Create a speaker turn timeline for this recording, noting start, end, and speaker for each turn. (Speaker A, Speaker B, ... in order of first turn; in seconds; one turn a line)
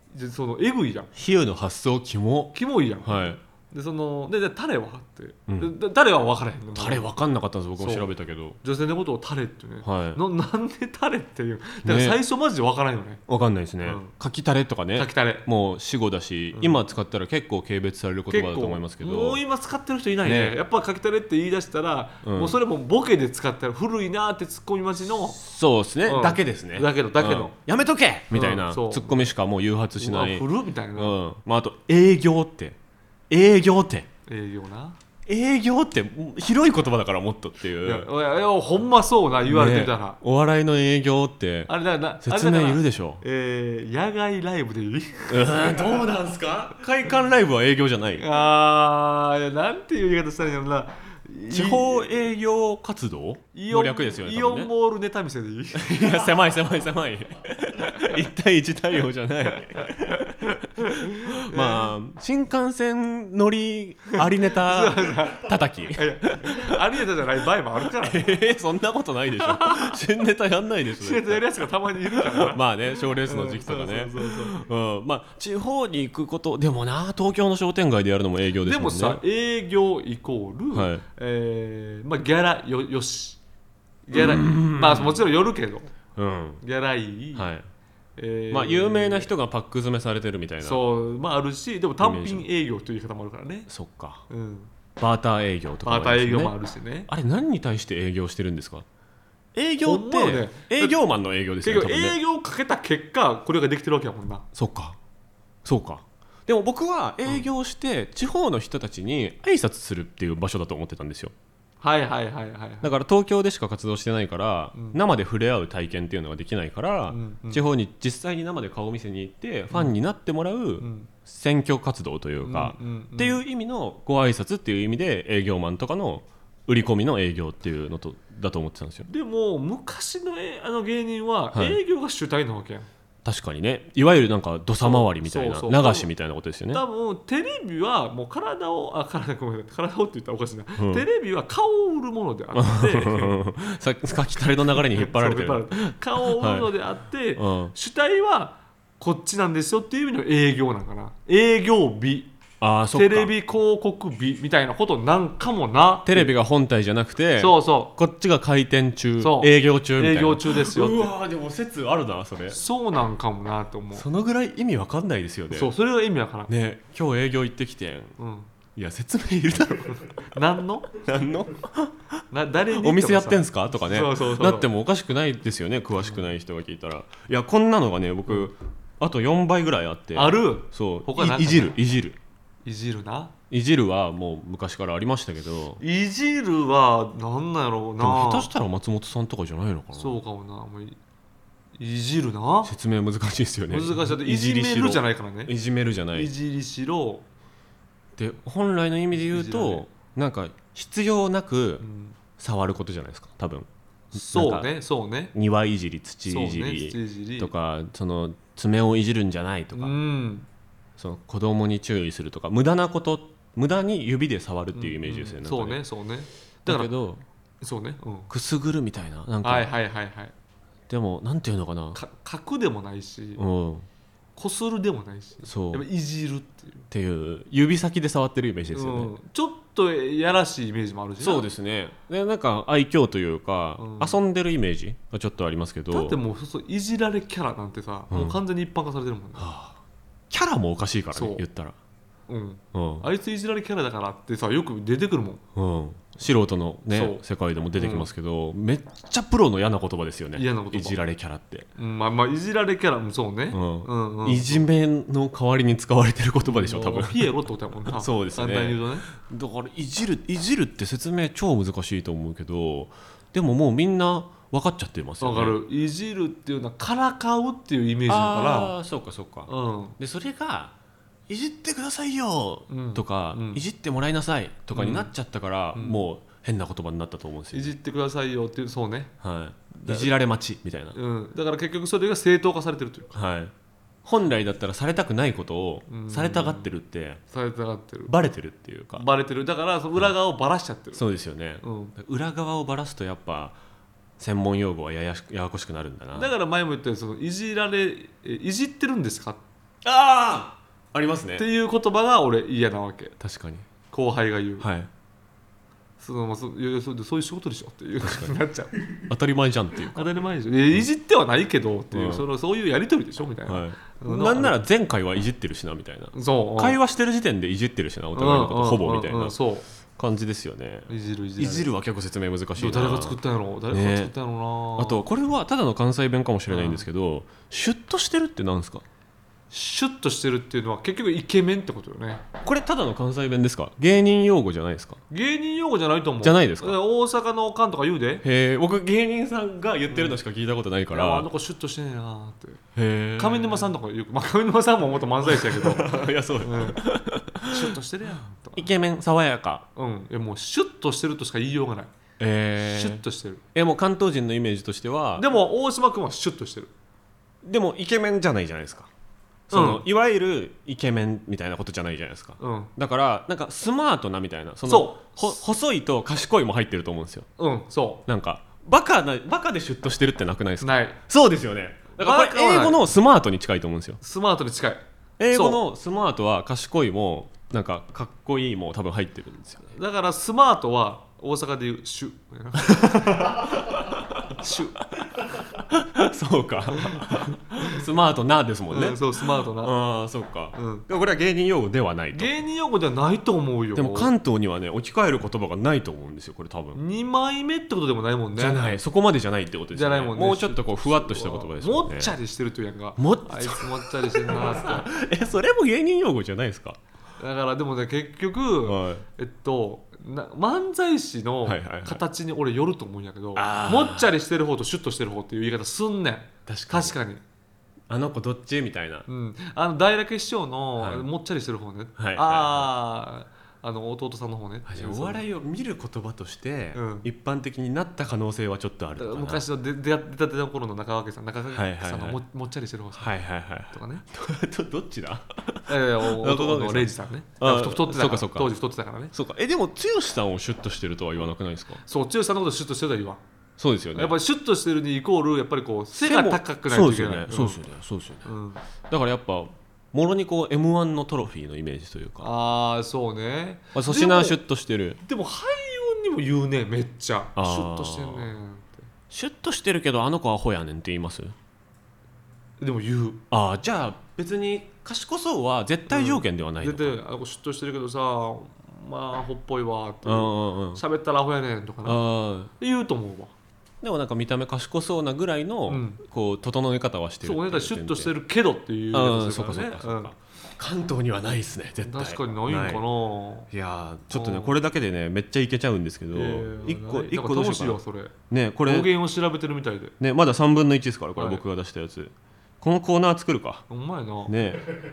Speaker A: 0.1-1.1
Speaker B: 1.1-3.4
Speaker A: 2.5-7.1
Speaker B: 6.8-8.6
Speaker A: 7.8-8.1
Speaker A: 8.6-13.2
Speaker B: 9.8-10.2
Speaker B: 11.8-12.2
Speaker B: 13.3-19.4
Speaker A: 13.8-14.1
Speaker A: 14.9-15.5
Speaker A: 16.5-16.8
Speaker A: 18.3-25.4
Speaker B: 20.2-20.6
Speaker B: 22.2-22.6
Speaker B: 25.3-32.8
Speaker A: 26.1-27.6
Speaker A: 28.3-29.2
Speaker A: 30.0-31.2
Speaker B: 33.3-34.1
Speaker A: 34.3-35.0
Speaker B: 35.3-38.1
Speaker A: 37.8-40.2
Speaker B: 39.4-41.7
Speaker A: 41.7-46.1
Speaker B: 42.2-43.2
Speaker B: 45.3-48.2
Speaker A: 48.2-52.1
Speaker B: 51.5-54.7
Speaker A: 53.5-56.5
Speaker B: 55.7-66.8
Speaker A: 57.8-58.2
Speaker A: 59.5-61.9
Speaker A: 64.1-68.3
Speaker B: 68.0-79.2
Speaker A: 69.4-70.0
Speaker A: 71.0-72.6
Speaker A: 73.2-74.6
Speaker A: 78.6-83.4
Speaker B: 80.7-81.0
Speaker A: 84.1-85.9
Speaker B: 84.1-85.2
Speaker B: 86.2-86.6
Speaker A: 86.6-87.5
Speaker B: 87.3-87.7
Speaker A: 88.2-89.3
Speaker B: 88.5-90.8
Speaker A: 90.6-93.7
Speaker B: 92.0-92.5
Speaker B: 93.7-94.2
Speaker A: 94.3-94.7
Speaker B: 95.0-96.6
Speaker A: 95.8-97.1
Speaker B: 97.1-98.9
Speaker B: 99.5-102.2
Speaker A: 99.8-101.0
Speaker A: 101.6-104.5
Speaker B: 104.5-105.0
Speaker B: 105.7-111.3
Speaker A: 111.8-112.9
Speaker B: 112.8-129.1
Speaker A: 117.1-117.6
Speaker A: 120.8-121.1
Speaker A: 122.4-123.4
Speaker A: 129.1-132.9
Speaker B: 131.5-131.8
Speaker B: 133.2-136.8
Speaker A: 134.8-136.1
Speaker A: 136.7-143.4
Speaker B: 140.8-141.1
Speaker B: 142.6-146.7
Speaker A: 144.8-152.3
Speaker B: 147.4-147.7
Speaker B: 152.6-153.3
Speaker A: 152.9-156.3
Speaker B: 156.1-162.6
Speaker A: 157.4-157.9
Speaker A: 159.2-161.1
Speaker A: 162.5-164.1
Speaker B: 163.9-165.7
Speaker A: 165.5-166.5
Speaker B: 166.5-168.2
Speaker A: 168.2-168.5
Speaker B: 168.8-170.2
Speaker A: 169.9-170.9
Speaker B: 170.9-172.1
Speaker A: 172.3-174.7
Speaker B: 172.7-182.2
Speaker A: 180.2-181.8
Speaker A: 182.7-183.3
Speaker B: 183.5-185.8
Speaker A: 185.8-188.5
Speaker B: 188.0-190.2
Speaker A: 189.9-191.0
Speaker A: 191.8-192.7
Speaker B: 192.7-196.3
Speaker A: 193.7-195.5
Speaker A: 196.1-197.2
Speaker B: 198.2-201.8
Speaker A: 199.1-199.9
Speaker A: 201.8-202.2
Speaker B: 202.4-204.7
Speaker A: 204.1-205.3
Speaker B: 205.3-209.9
Speaker A: 206.3-207.5
Speaker A: 209.7-210.5
Speaker B: 211.0-215.8
Speaker A: 214.7-216.9
Speaker B: 216.7-217.2
Speaker A: 217.6-218.3
Speaker B: 218.3-219.7
Speaker A: 219.4-220.3
Speaker B: 220.9-222.0
Speaker A: 221.9-223.4
Speaker B: 223.4-223.9
Speaker A: 224.4-226.9
Speaker B: 225.4-225.8
Speaker B: 226.9-229.1
Speaker A: 228.7-231.5
Speaker B: 231.2-236.2
Speaker A: 233.8-234.2
Speaker A: 235.9-239.5
Speaker B: 238.1-238.4
Speaker B: 239.4-239.8
Speaker B: 240.3-241.8
Speaker A: 241.1-241.4
Speaker A: 242.3-245.4
Speaker B: 242.7-243.1
Speaker B: 245.6-251.7
Speaker A: 246.9-247.2
Speaker A: 247.8-248.1
Speaker A: 250.4-251.0
Speaker A: 251.8-254.6
Speaker B: 253.5-257.3
Speaker A: 256.4-259.1
Speaker B: 257.9-265.6
Speaker A: 265.2-268.8
Speaker B: 268.1-270.7
Speaker A: 269.5-270.0
Speaker B: 271.3-277.8
Speaker A: 272.7-273.6
Speaker A: 274.7-275.1
Speaker A: 275.7-276.1
Speaker A: 277.5-279.1
Speaker B: 279.2-281.0
Speaker A: 279.8-280.1
Speaker A: 280.9-283.2
Speaker B: 283.1-283.5
Speaker B: 284.1-287.2
Speaker A: 285.9-286.7
Speaker A: 287.3-288.1
Speaker B: 288.1-289.1
Speaker A: 288.9-291.0
Speaker B: 290.9-293.6
Speaker A: 291.6-291.9
Speaker B: 294.2-296.3
Speaker A: 296.1-299.4
Speaker B: 299.8-301.4
Speaker A: 301.4-303.2
Speaker B: 303.2-303.7
Speaker A: 303.9-304.7
Speaker B: 304.6-304.9
Speaker A: 306.0-308.7
Speaker B: 308.0-308.4
Speaker B: 309.0-310.1
Speaker A: 309.9-314.6
Speaker B: 311.9-312.2
Speaker B: 313.5-319.4
Speaker A: 316.1-316.8
Speaker A: 318.1-319.6
Speaker B: 320.0-323.2
Speaker A: 320.9-321.7
Speaker A: 322.6-325.0
Speaker B: 323.7-324.1
Speaker B: 324.8-328.8
Speaker A: 326.5-326.9
Speaker A: 329.5-332.3
Speaker B: 332.4-335.0
Speaker A: 335.1-338.2
Speaker B: 336.2-336.8
Speaker B: 338.2-341.3
Speaker A: 339.9-340.2
Speaker A: 340.9-342.6
Speaker B: 342.8-343.8
Speaker A: 343.2-346.8
Speaker B: 345.2-347.8
Speaker A: 347.4-348.7
Speaker B: 348.6-349.7
Speaker A: 349.8-351.9
Speaker B: 352.2-353.0
Speaker A: 352.6-353.4
Speaker B: 353.5-355.3
Speaker A: 355.2-356.7
Speaker B: 357.4-358.9
Speaker B: 359.5-367.3
Speaker A: 359.5-359.8
Speaker A: 362.4-362.7
Speaker A: 364.7-365.4
Speaker A: 367.4-368.0
Speaker B: 368.1-374.0
Speaker A: 370.6-371.0
Speaker A: 372.0-372.8
Speaker A: 374.0-375.6
Speaker B: 375.2-379.6
Speaker A: 379.6-383.6
Speaker B: 383.2-384.4
Speaker A: 384.3-384.8
Speaker B: 385.0-392.4
Speaker A: 386.7-387.8
Speaker A: 388.7-389.8
Speaker A: 390.5-390.9
Speaker A: 392.1-394.1
Speaker B: 393.8-396.8
Speaker A: 396.7-398.8
Speaker B: 398.4-402.1
Speaker A: 399.7-404.9
Speaker B: 403.0-406.8
Speaker A: 407.2-417.2
Speaker B: 408.6-409.1
Speaker B: 411.4-412.0
Speaker B: 413.4-414.1
Speaker B: 416.5-416.9
Speaker B: 417.9-419.1
Speaker A: 419.1-425.2
Speaker B: 420.8-421.1
Speaker B: 422.0-422.7
Speaker B: 424.7-429.4
Speaker A: 426.7-427.1
Speaker A: 429.0-433.2
Speaker B: 431.5-432.2
Speaker B: 432.9-438.5
Speaker A: 433.7-434.0
Speaker A: 435.7-439.1
Speaker B: 439.1-441.8
Speaker A: 441.9-443.2
Speaker B: 443.6-444.1
Speaker A: 443.9-447.6
Speaker B: 445.9-448.3
Speaker A: 448.2-448.6
Speaker B: 448.9-452.3
Speaker A: 452.2-454.4
Speaker B: 453.7-455.0
Speaker A: 455.0-458.9
Speaker B: 457.4-458.3
Speaker B: 459.1-461.4
Speaker A: 462.6-463.2
Speaker B: 463.3-467.0
Speaker A: 465.9-473.3
Speaker B: 470.1-470.8
Speaker B: 471.9-472.5
Speaker B: 473.8-478.1
Speaker A: 475.7-476.0
Speaker A: 477.2-480.1
Speaker B: 478.9-482.9
Speaker A: 481.8-483.5
Speaker B: 483.5-488.9
Speaker A: 484.1-484.6
Speaker A: 486.1-489.9
Speaker B: 490.0-493.6
Speaker A: 491.2-491.4
Speaker A: 493.7-494.4
Speaker B: 494.3-494.7